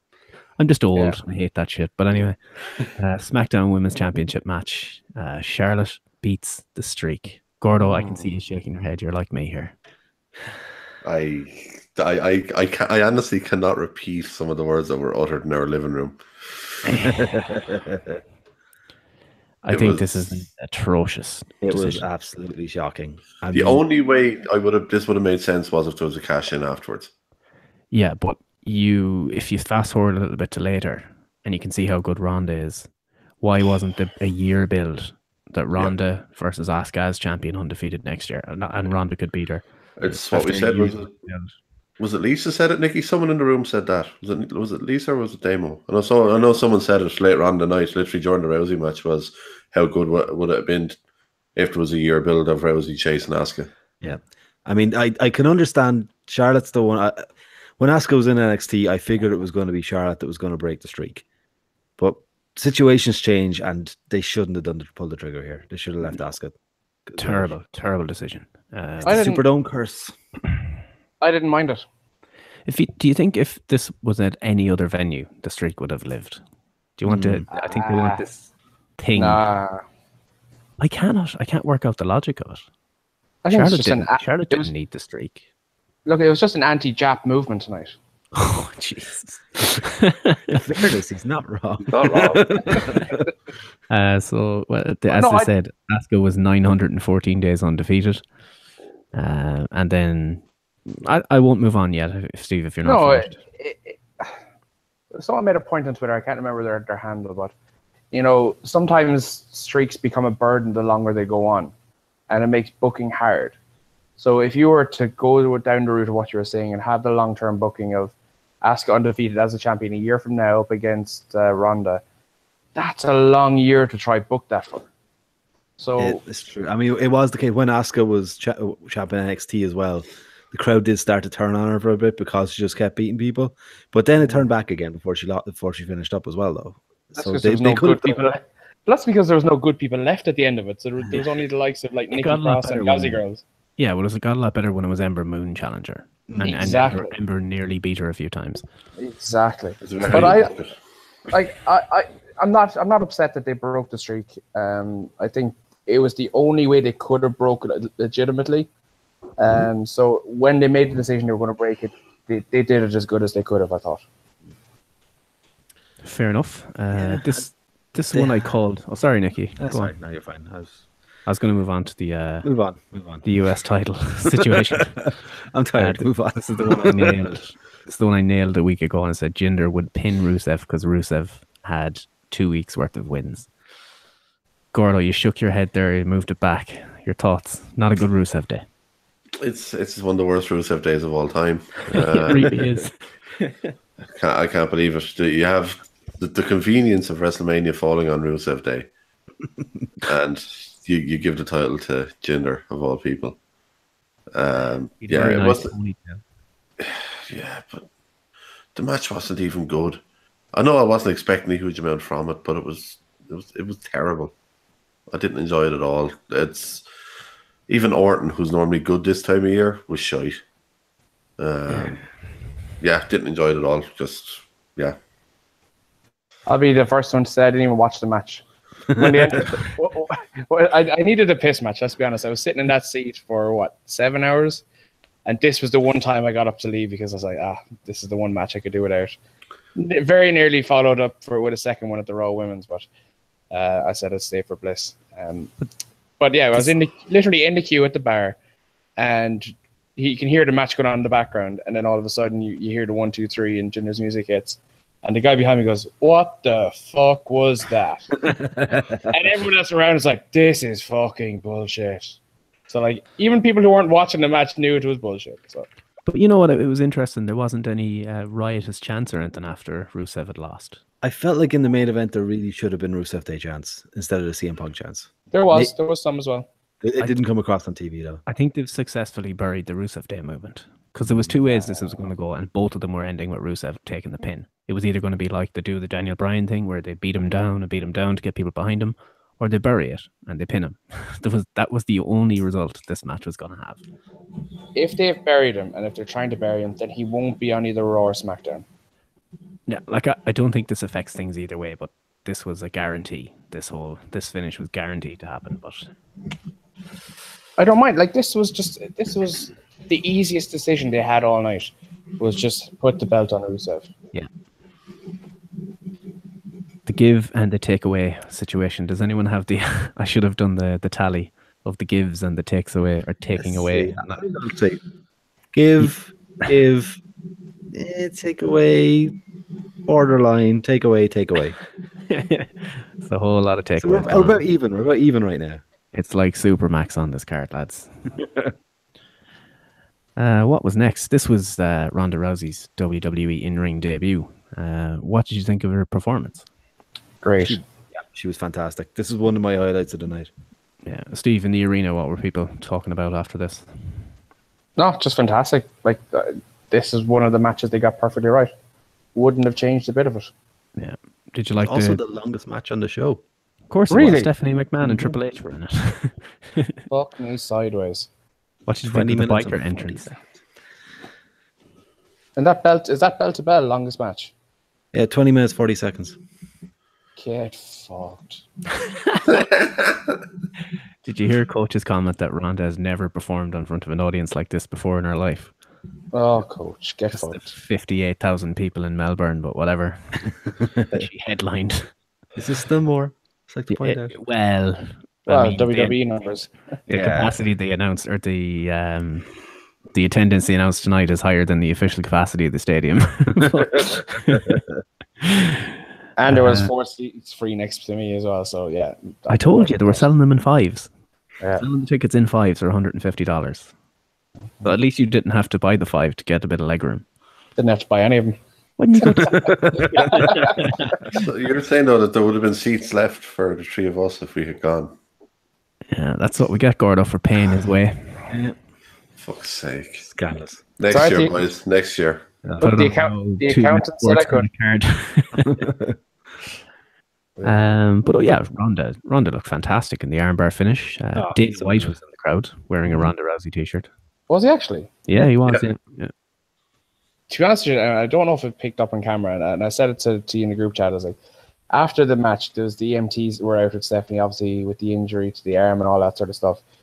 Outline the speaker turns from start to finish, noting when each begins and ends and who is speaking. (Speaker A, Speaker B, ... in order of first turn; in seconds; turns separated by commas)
Speaker A: 0.6-9.7, Speaker B: 7.8-8.3, Speaker C: 11.0-17.1, Speaker D: 17.0-18.2, Speaker A: 19.6-22.1, Speaker C: 19.7-20.4, Speaker D: 21.6-23.8, Speaker C: 23.5-27.1, Speaker A: 27.9-32.9, Speaker A: 33.4-41.5, Speaker C: 40.0-41.1, Speaker C: 42.0-51.0, Speaker C: 51.6-53.7, Speaker D: 54.0-57.3, Speaker D: 57.8-61.2, Speaker D: 62.0-66.5, Speaker D: 67.1-67.5, Speaker A: 67.2-69.2, Speaker B: 69.0-69.4, Speaker D: 69.1-70.1, Speaker B: 71.2-71.8, Speaker A: 72.7-76.4, Speaker A: 77.0-79.4, Speaker D: 77.1-77.4, Speaker B: 77.5-78.2, Speaker B: 79.2-79.8, Speaker A: 80.8-82.6, Speaker B: 83.4-84.7, Speaker A: 83.5-85.4, Speaker B: 86.1-88.0, Speaker A: 88.3-90.6, Speaker D: 90.5-93.2, Speaker C: 91.9-93.0, Speaker A: 93.9-98.2, Speaker B: 95.1-95.5, Speaker A: 99.1-103.4, Speaker B: 102.8-104.3, Speaker B: 105.1-107.5, Speaker B: 108.1-111.7, Speaker B: 112.3-113.5, Speaker B: 114.2-122.0, Speaker B: 122.8-124.9, Speaker B: 125.8-126.2, Speaker D: 126.0-138.2, Speaker B: 137.2-143.4, Speaker A: 142.1-143.2, Speaker A: 143.8-148.7, Speaker D: 146.3-146.9, Speaker B: 146.4-147.1, Speaker B: 149.0-150.5, Speaker C: 149.8-150.7, Speaker B: 151.3-158.7, Speaker B: 159.4-164.0, Speaker A: 166.0-169.9, Speaker D: 166.9-167.4, Speaker D: 168.1-168.5, Speaker D: 169.6-170.8, Speaker A: 171.3-172.5, Speaker D: 172.4-173.2, Speaker A: 173.2-175.1, Speaker D: 175.5-177.3, Speaker A: 175.8-183.5, Speaker A: 184.7-188.6, Speaker C: 189.4-192.7, Speaker A: 191.9-193.6, Speaker C: 194.1-198.9, Speaker C: 200.0-203.4, Speaker C: 204.3-205.7, Speaker A: 205.0-206.2, Speaker C: 206.8-207.9, Speaker C: 208.8-210.0, Speaker C: 210.5-214.3, Speaker C: 215.1-216.9, Speaker C: 217.7-220.4, Speaker C: 221.4-222.0, Speaker C: 222.8-225.0, Speaker B: 226.5-234.6, Speaker D: 228.9-229.4, Speaker B: 235.3-239.2, Speaker B: 239.8-242.9, Speaker B: 243.5-245.5, Speaker B: 246.2-248.4, Speaker B: 249.0-258.3, Speaker D: 258.4-259.0, Speaker B: 259.1-262.2, Speaker B: 262.7-265.7, Speaker A: 266.1-270.8, Speaker D: 271.0-275.7, Speaker B: 275.3-276.5, Speaker D: 276.8-278.2, Speaker A: 278.3-293.8, Speaker D: 281.1-281.3, Speaker B: 294.8-298.6, Speaker A: 299.7-305.9, Speaker B: 307.6-313.9, Speaker A: 316.9-324.2, Speaker D: 323.4-324.8, Speaker D: 325.5-327.0, Speaker D: 327.7-329.2, Speaker D: 329.9-331.6, Speaker A: 332.1-334.4, Speaker D: 333.8-335.6, Speaker A: 335.9-337.9, Speaker A: 340.2-346.5, Speaker B: 347.2-347.6, Speaker D: 347.4-350.3, Speaker A: 350.9-353.7, Speaker B: 354.8-358.5, Speaker B: 359.1-360.3, Speaker A: 360.8-362.0, Speaker D: 361.6-363.2, Speaker A: 363.7-366.8, Speaker B: 363.9-364.3, Speaker B: 366.9-368.1, Speaker A: 368.7-370.2, Speaker D: 368.9-370.3, Speaker B: 372.4-374.3, Speaker D: 374.9-376.2, Speaker B: 377.2-378.4, Speaker C: 379.3-379.9, Speaker A: 381.1-385.5, Speaker B: 386.1-387.5, Speaker A: 387.1-391.9, Speaker D: 392.4-394.2, Speaker A: 393.7-396.0, Speaker B: 395.3-396.5, Speaker D: 396.9-397.4, Speaker A: 396.9-399.3, Speaker A: 399.9-404.6, Speaker A: 405.2-405.7, Speaker B: 406.2-410.1, Speaker A: 406.3-406.7, Speaker A: 409.3-410.9, Speaker B: 411.4-411.6, Speaker A: 411.6-413.7, Speaker A: 414.6-417.1, Speaker B: 417.6-418.4, Speaker A: 418.8-421.0, Speaker B: 419.0-420.7, Speaker D: 419.2-420.3, Speaker C: 421.1-424.9, Speaker A: 425.9-428.3, Speaker D: 428.3-428.6, Speaker C: 429.2-430.1, Speaker D: 430.1-430.6, Speaker C: 430.8-432.3, Speaker B: 430.9-431.5, Speaker A: 432.6-435.7, Speaker B: 432.6-434.5, Speaker D: 435.4-436.0, Speaker A: 437.4-443.9, Speaker D: 441.1-442.0, Speaker B: 444.3-444.9, Speaker A: 445.1-446.1, Speaker B: 447.3-451.2, Speaker B: 451.7-456.6